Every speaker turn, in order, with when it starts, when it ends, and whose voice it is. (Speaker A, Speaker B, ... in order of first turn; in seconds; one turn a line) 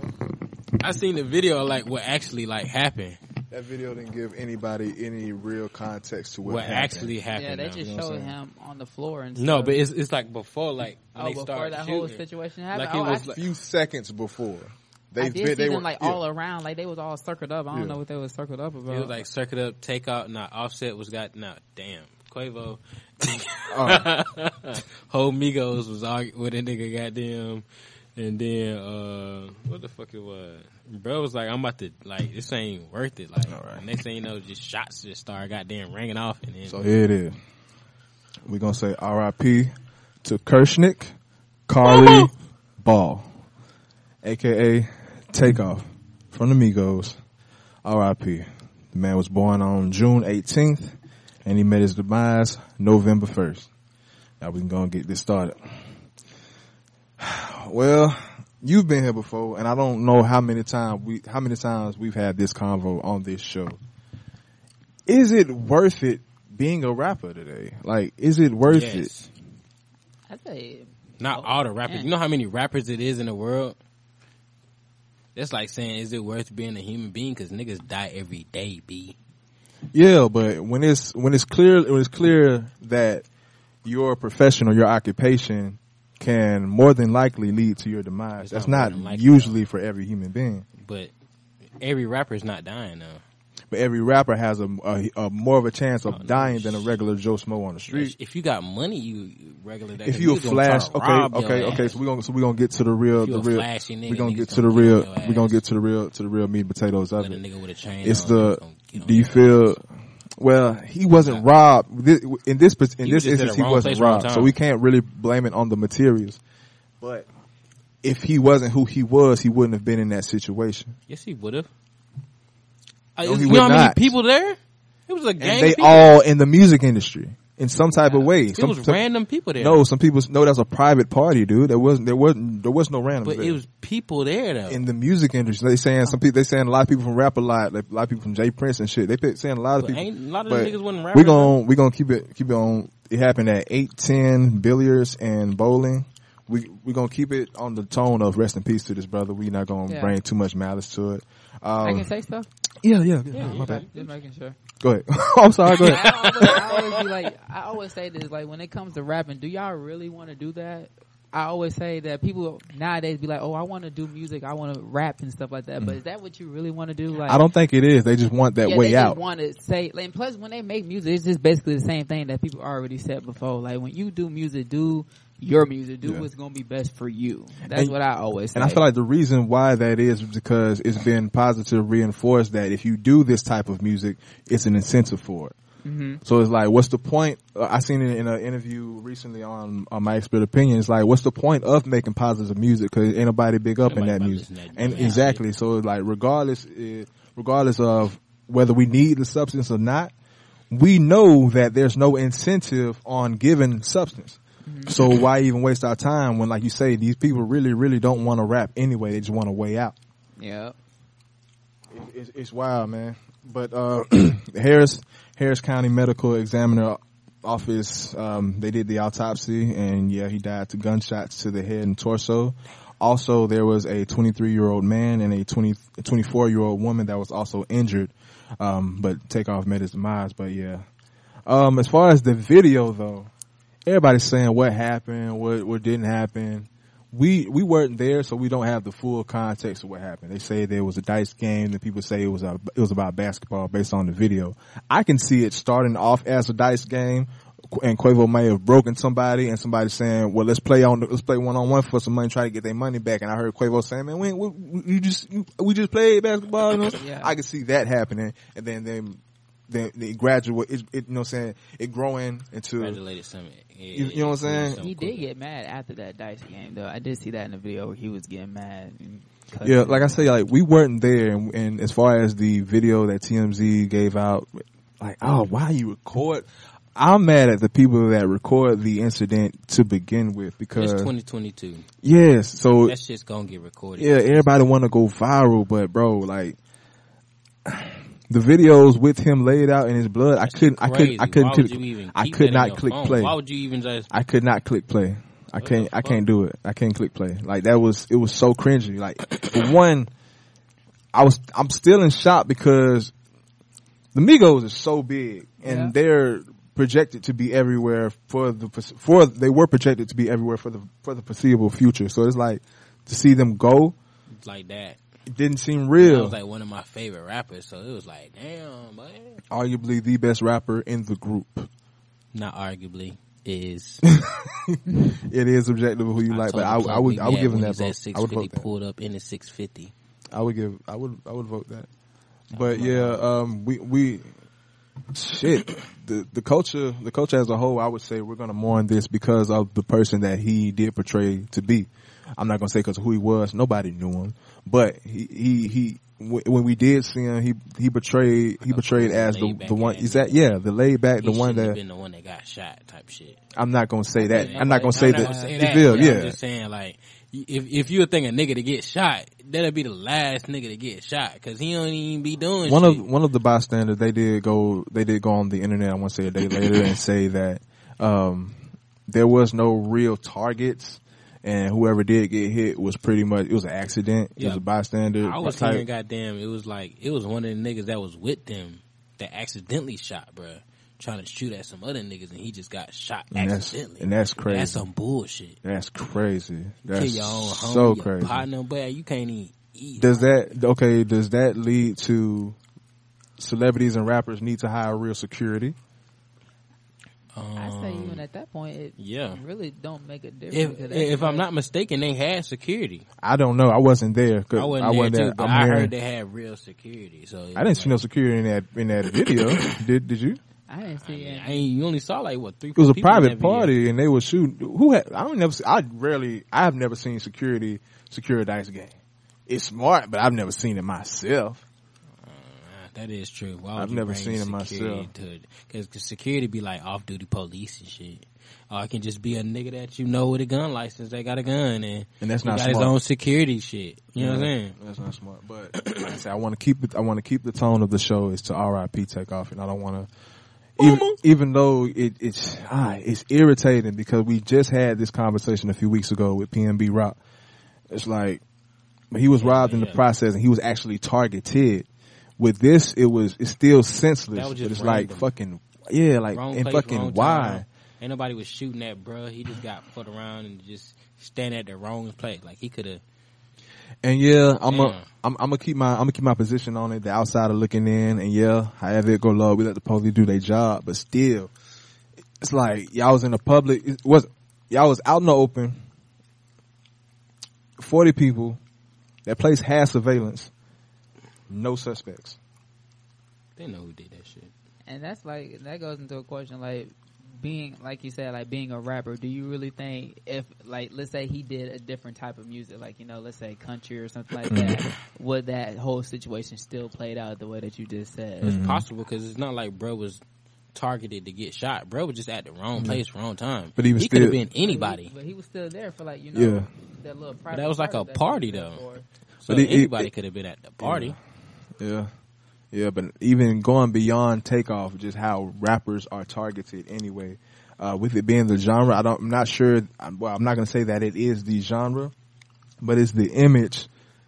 Speaker A: 0.8-3.2
Speaker B: 3.5-7.1
Speaker A: 6.4-8.0
Speaker C: 7.3-9.8
Speaker B: 7.8-8.3
Speaker A: 9.3-13.4
Speaker C: 11.2-13.3
Speaker B: 13.2-16.2
Speaker C: 15.2-19.2
Speaker B: 17.7-18.0
Speaker A: 18.9-27.6
Speaker B: 23.7-24.1
Speaker A: 28.2-36.8
Speaker B: 33.4-33.8
Speaker B: 36.7-37.4
Speaker B: 38.5-39.7
Speaker B: 40.2-41.1
Speaker B: 41.7-43.3
Speaker A: 41.8-42.3
Speaker B: 44.2-47.2
Speaker B: 47.9-53.7
Speaker B: 54.4-55.6
Speaker B: 57.2-63.8
Speaker B: 65.1-69.1
Speaker A: 68.7-69.3
Speaker C: 70.3-72.1
Speaker A: 71.2-73.8
Speaker A: 75.3-79.2
Speaker B: 79.9-83.2
Speaker B: 83.8-90.7
Speaker A: 88.4-89.6
Speaker A: 90.8-91.1
Speaker A: 91.8-93.2
Speaker B: 93.7-98.2
Speaker A: 96.1-97.0
Speaker A: 97.9-102.0
Speaker B: 100.0-107.4
Speaker A: 103.2-105.6
Speaker A: 107.2-109.7
Speaker B: 108.0-109.8
Speaker B: 110.4-116.4
Speaker A: 111.2-111.5
Speaker A: 113.0-114.6
Speaker B: 117.0-117.3
Speaker B: 118.0-121.0
Speaker A: 121.1-121.7
Speaker A: 123.2-126.2
Speaker B: 123.2-124.1
Speaker B: 125.4-129.0
Speaker A: 128.1-129.8
Speaker B: 129.6-133.6
Speaker A: 133.2-134.9
Speaker B: 134.7-152.1
Speaker A: 139.8-141.6
Speaker C: 149.9-150.2
Speaker C: 151.8-152.5
Speaker B: 152.8-153.9
Speaker A: 153.3-154.1
Speaker C: 153.3-154.6
Speaker B: 154.8-156.4
Speaker A: 155.7-157.1
Speaker C: 155.8-167.5
Speaker B: 167.2-169.2
Speaker C: 168.6-178.8
Speaker B: 177.7-178.0
Speaker B: 178.5-185.6
Speaker C: 185.8-186.2
Speaker B: 186.2-200.1
Speaker A: 193.8-195.4
Speaker C: 194.9-195.2
Speaker B: 200.7-209.9
Speaker C: 204.7-204.9
Speaker C: 210.4-210.8
Speaker B: 211.9-230.8
Speaker B: 231.5-233.3
Speaker B: 233.9-263.0
Speaker C: 256.9-257.4
Speaker A: 262.8-265.3
Speaker B: 263.9-264.8
Speaker C: 264.8-270.3
Speaker B: 269.6-281.1
Speaker A: 280.8-281.9
Speaker B: 282.0-283.0
Speaker A: 282.8-284.6
Speaker B: 284.0-286.6
Speaker B: 287.7-293.4
Speaker A: 290.4-294.1
Speaker B: 294.1-300.1
Speaker A: 295.6-296.2
Speaker B: 301.1-303.1
Speaker B: 304.1-314.0
Speaker C: 305.6-305.9
Speaker A: 314.4-315.0
Speaker B: 315.3-316.4
Speaker A: 316.0-319.4
Speaker B: 319.5-321.7
Speaker A: 322.3-324.0
Speaker B: 324.0-328.7
Speaker A: 326.3-329.9
Speaker B: 330.3-331.9
Speaker A: 332.5-333.2
Speaker B: 332.5-334.3
Speaker B: 335.1-351.8
Speaker A: 348.6-350.6
Speaker A: 351.2-353.4
Speaker B: 353.6-356.4
Speaker C: 354.1-356.2
Speaker A: 354.3-363.1
Speaker B: 362.6-375.9
Speaker A: 374.4-374.7
Speaker A: 375.2-385.6
Speaker B: 383.3-384.9
Speaker B: 385.6-388.5
Speaker A: 386.9-390.4
Speaker B: 390.0-392.6
Speaker B: 393.4-395.8
Speaker A: 397.4-398.2
Speaker C: 397.6-401.5
Speaker A: 399.0-399.4
Speaker A: 400.5-403.1
Speaker B: 403.2-405.9
Speaker A: 404.5-408.0
Speaker B: 407.6-410.4
Speaker C: 410.7-411.7
Speaker A: 411.0-413.8
Speaker B: 412.8-418.9
Speaker B: 419.5-421.6
Speaker A: 422.2-434.8
Speaker B: 423.8-425.1
Speaker B: 432.2-432.9
Speaker B: 434.1-440.1
Speaker A: 435.8-436.2
Speaker B: 440.8-447.2
Speaker A: 440.8-441.2
Speaker B: 447.9-448.4
Speaker B: 449.1-451.9
Speaker A: 449.4-450.0
Speaker B: 452.4-457.6
Speaker A: 454.3-455.3
Speaker A: 456.3-463.0
Speaker B: 464.0-471.5
Speaker A: 464.7-465.1
Speaker B: 472.4-475.8
Speaker B: 477.8-478.6
Speaker B: 479.3-480.5
Speaker B: 481.5-482.4
Speaker A: 483.6-484.5
Speaker C: 484.9-498.6
Speaker B: 494.5-494.8
Speaker A: 498.4-500.2
Speaker B: 498.4-498.9
Speaker A: 500.8-505.1
Speaker B: 502.8-503.0
Speaker B: 503.8-504.4
Speaker C: 504.6-509.1
Speaker B: 506.3-506.7
Speaker A: 507.5-508.8
Speaker A: 509.4-511.2
Speaker B: 509.5-510.1
Speaker B: 510.8-511.2
Speaker B: 511.8-512.1
Speaker B: 512.7-522.1
Speaker B: 522.8-523.9